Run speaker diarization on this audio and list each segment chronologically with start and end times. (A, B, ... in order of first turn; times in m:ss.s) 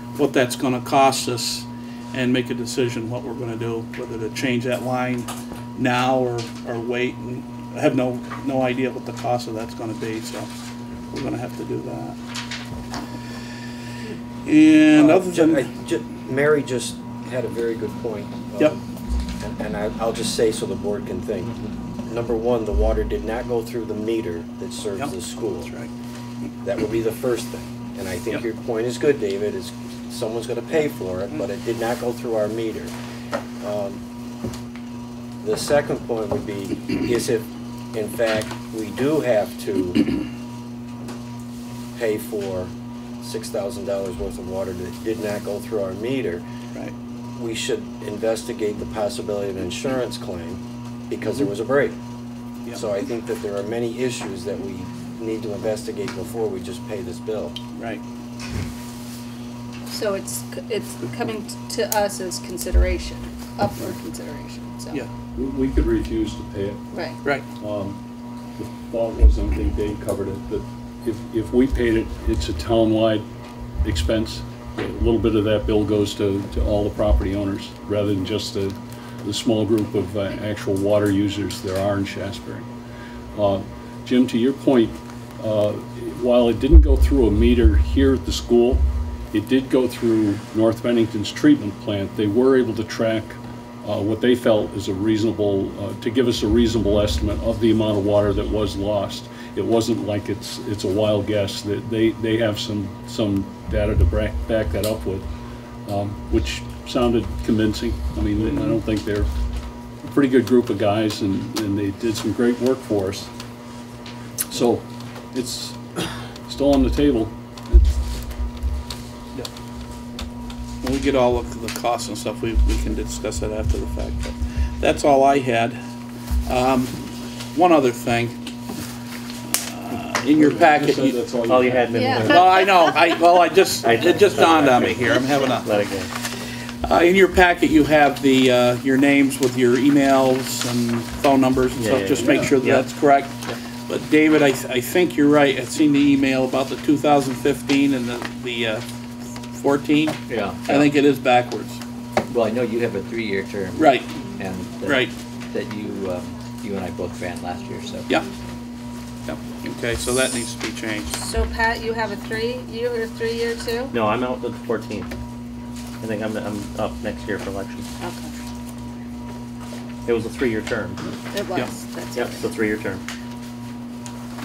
0:00.2-0:10.5 A
0:11.1-0:12.2 A
0:14.4-0:15.7 A
0:14.9-0:18.8 B
0:19.4-0:25.7 B
0:25.0-0:25.9 A
0:26.6-0:32.9 B
0:33.6-0:34.0 B
0:35.4-0:40.2 B
0:41.9-0:46.4 B
0:47.4-0:52.0 B
0:52.7-0:57.6 B
0:57.7-0:58.0 A
0:59.9-1:05.0 C
1:05.3-1:06.8 D
1:06.9-1:07.2 C
1:07.6-1:08.0 D
1:08.6-1:13.2 D
1:13.8-1:22.7 D
1:23.3-1:45.3 D
1:45.8-1:49.3 D
1:50.0-1:53.3 D
1:54.5-1:55.8 D
1:56.4-1:58.0 D
2:00.8-2:05.8 A
2:06.5-2:08.4 A
2:09.5-2:11.2 A
2:10.3-2:12.4 D
2:11.5-2:12.6 E
2:11.9-2:13.2 C
2:12.2-2:15.8 A
2:13.8-2:16.1 E
2:16.8-2:28.8 A
2:21.8-2:22.9 E
2:29.5-2:31.8 A
2:30.3-2:30.9 F
2:32.3-2:38.1 F
2:33.7-2:34.1 A
2:34.8-2:35.1 A
2:39.2-2:41.2 A
2:41.2-2:43.9 C
2:43.9-2:45.1 E
2:46.0-2:47.9 E
2:48.0-2:48.3 C
2:50.0-2:51.0 E
2:51.3-2:52.4 C
2:52.1-2:53.0 E